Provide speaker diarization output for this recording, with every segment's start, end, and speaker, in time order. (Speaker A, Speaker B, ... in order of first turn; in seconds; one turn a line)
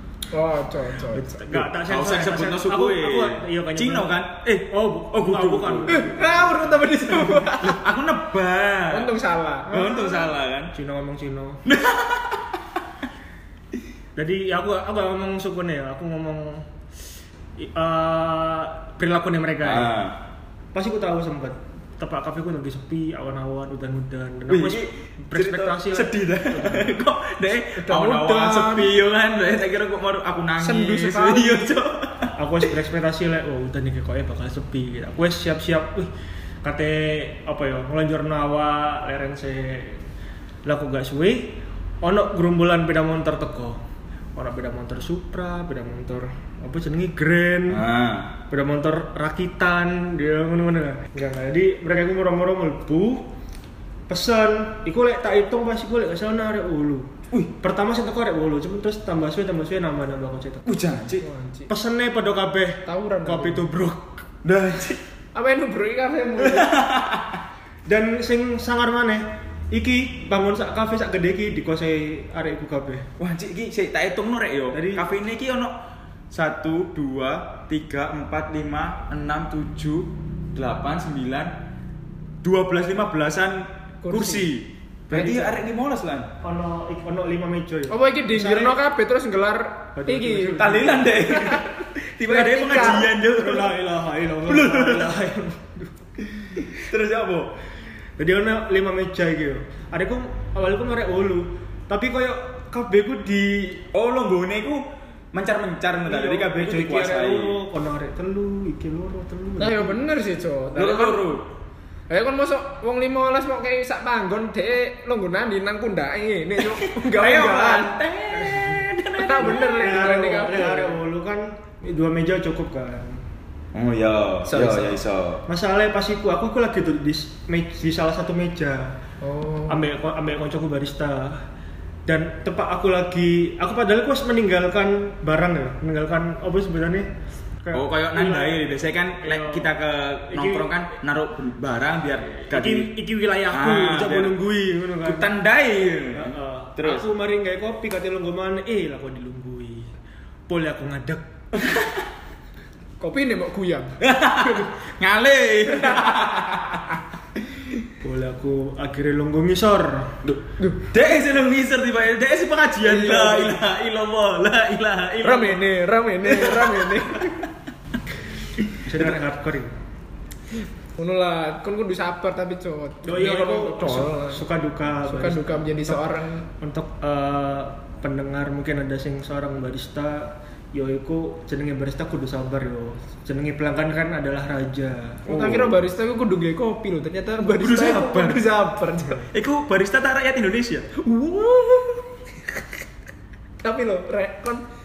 Speaker A: 0.3-1.6
Speaker B: 1.1-6.9
Speaker C: 1.8-6.2
Speaker A: 5.9-7.8
Speaker C: 7.1-9.1
Speaker A: 8.9-9.7
Speaker C: 9.7-10.7
Speaker B: 9.7-11.6
Speaker C: 11.7-12.6
Speaker B: 14.2-16.7
Speaker B: 17.6-20.1
Speaker C: 19.6-20.2
Speaker B: 20.7-27.0
Speaker C: 24.5-32.3
Speaker A: 27.8-29.0
Speaker A: 30.6-31.8
Speaker B: 32.4-36.1
Speaker B: 36.6-40.1
Speaker B: 40.6-43.8
Speaker B: 44.4-47.8
Speaker C: 47.7-48.3
Speaker B: 48.5-53.3
Speaker B: 54.1-60.7
Speaker C: 60.7-61.3
Speaker A: 61.2-61.7
Speaker B: 61.7-64.3
Speaker A: 62.9-63.7
Speaker C: 64.4-65.0
Speaker A: 65.3-66.9
Speaker C: 66.4-67.4
Speaker B: 67.9-73.1
Speaker C: 73.2-75.8
Speaker B: 74.7-75.1
Speaker C: 76.3-81.6
Speaker C: 82.4-86.3
Speaker A: 84.0-84.5
Speaker B: 85.1-85.6
Speaker B: 86.4-88.8
Speaker A: 87.9-93.1
Speaker B: 90.0-91.1
Speaker C: 90.6-93.8
Speaker B: 92.7-96.0
Speaker C: 94.4-95.1
Speaker C: 96.4-97.5
Speaker B: 98.2-103.8
Speaker C: 103.9-107.6
Speaker B: 106.1-110.1
Speaker A: 109.6-111.3
Speaker C: 110.7-111.5
Speaker A: 112.1-118.0
Speaker C: 116.6-119.8
Speaker B: 118.4-118.7
Speaker A: 119.2-121.0
Speaker B: 119.4-123.2
Speaker C: 123.7-125.4
Speaker A: 124.5-125.0
Speaker B: 125.5-129.0
Speaker A: 129.2-129.8
Speaker B: 129.7-131.5
Speaker B: 132.1-137.1
Speaker B: 137.6-138.6
Speaker C: 137.7-142.9
Speaker B: 139.2-139.8
Speaker B: 140.3-140.7
Speaker B: 142.5-145.3
Speaker C: 143.5-144.4
Speaker C: 145.0-147.1
Speaker B: 146.1-149.9
Speaker B: 150.5-151.3
Speaker C: 151.6-152.0
Speaker A: 153.0-154.7
Speaker C: 154.0-156.9
Speaker A: 155.7-156.5
Speaker B: 158.0-160.2
Speaker C: 160.2-165.7
Speaker A: 162.8-163.6
Speaker A: 165.2-167.5
Speaker C: 166.2-167.2
Speaker B: 168.8-169.8
Speaker A: 171.0-174.4
Speaker B: 173.0-185.6
Speaker A: 175.1-176.5
Speaker A: 185.3-189.3
Speaker C: 185.3-185.8
Speaker C: 187.5-188.4
Speaker C: 189.3-190.9
Speaker A: 191.0-192.7
Speaker A: 193.6-194.6